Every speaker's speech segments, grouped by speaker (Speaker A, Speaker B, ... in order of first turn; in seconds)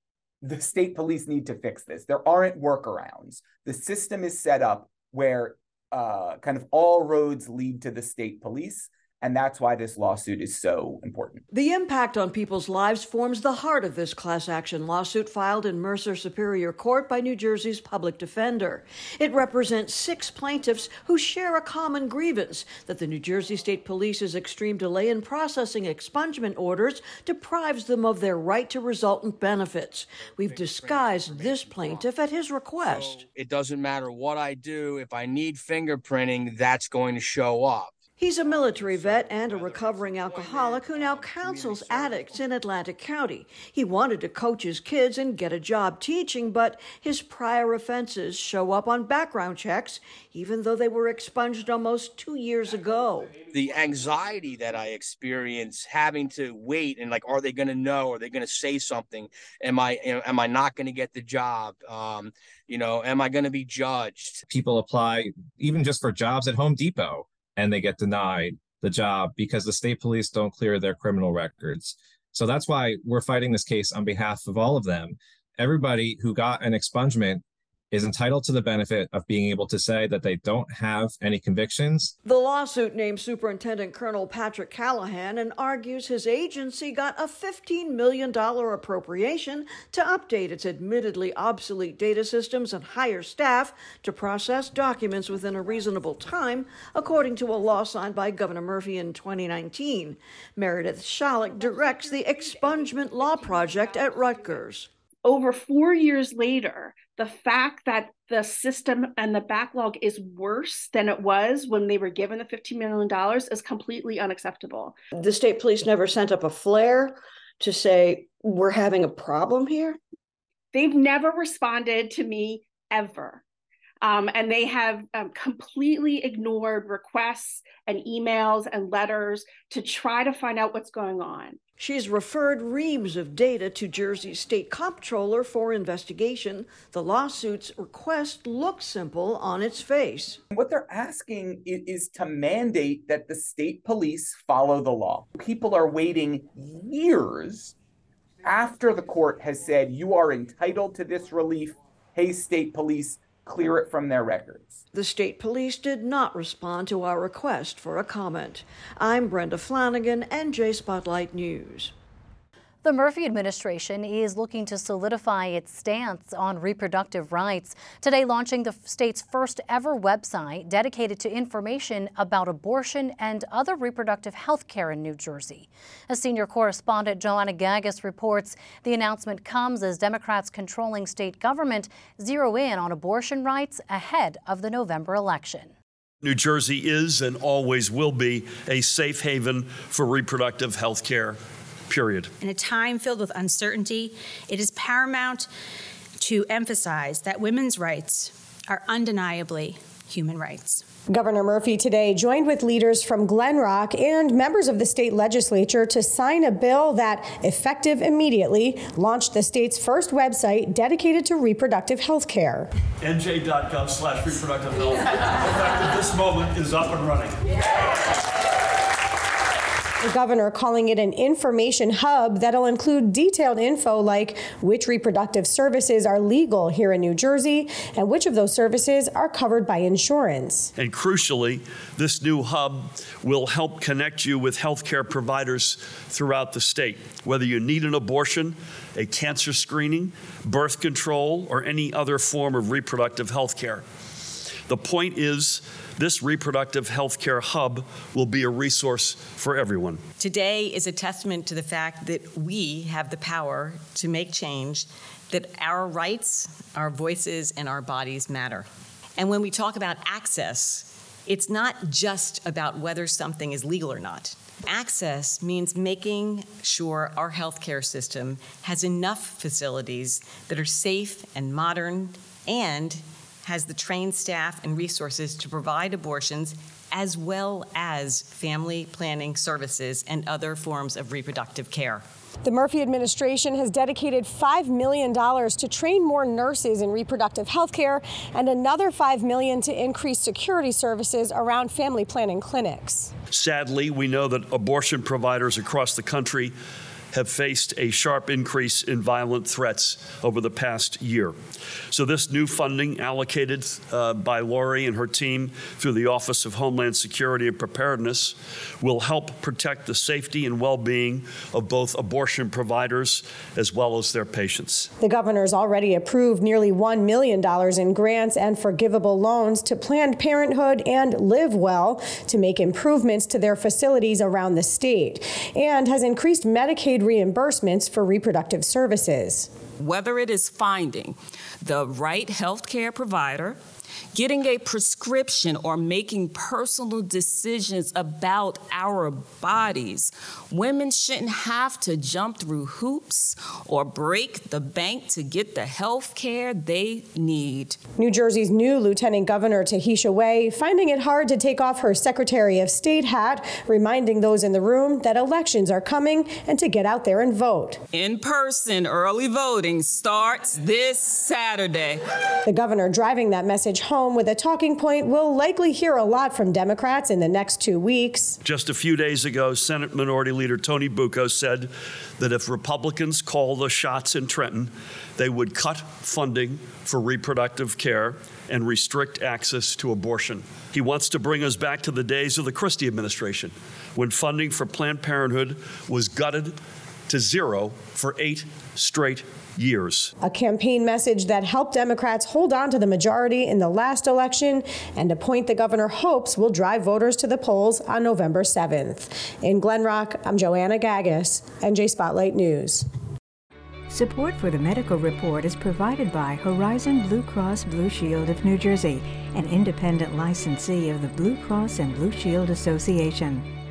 Speaker A: 0.4-11.4, 140.5-147.8, 148.4-154.8
Speaker B: 11.5-33.2, 38.2-53.4, 82.2-104.9, 115.2-120.0, 131.8-140.4, 154.9-161.9
Speaker C: 30.4-32.1, 32.8-42.5, 53.5-64.4
Speaker D: 64.5-82.1
Speaker E: 102.0-102.8, 103.3-103.9, 105.2-115.0, 120.7-123.4, 124.0-131.6
Speaker F: 162.8-185.7
Speaker G: 186.2-192.3, 213.0-217.4, 230.8-243.8, 244.7-250.0, 293.2-296.5, 297.1-301.4, 301.9-314.9, 368.4-386.6, 387.1-390.1
Speaker H: 192.4-195.5, 196.2-200.8
Speaker I: 201.1-212.7, 220.0-230.7, 282.4-293.1, 315.0-329.5, 348.0-357.8, 362.4-368.4, 390.2-402.9
Speaker J: 250.2-282.0
Speaker K: 329.8-333.6, 334.1-347.8, 357.9-362.0
Speaker L: 403.9-413.5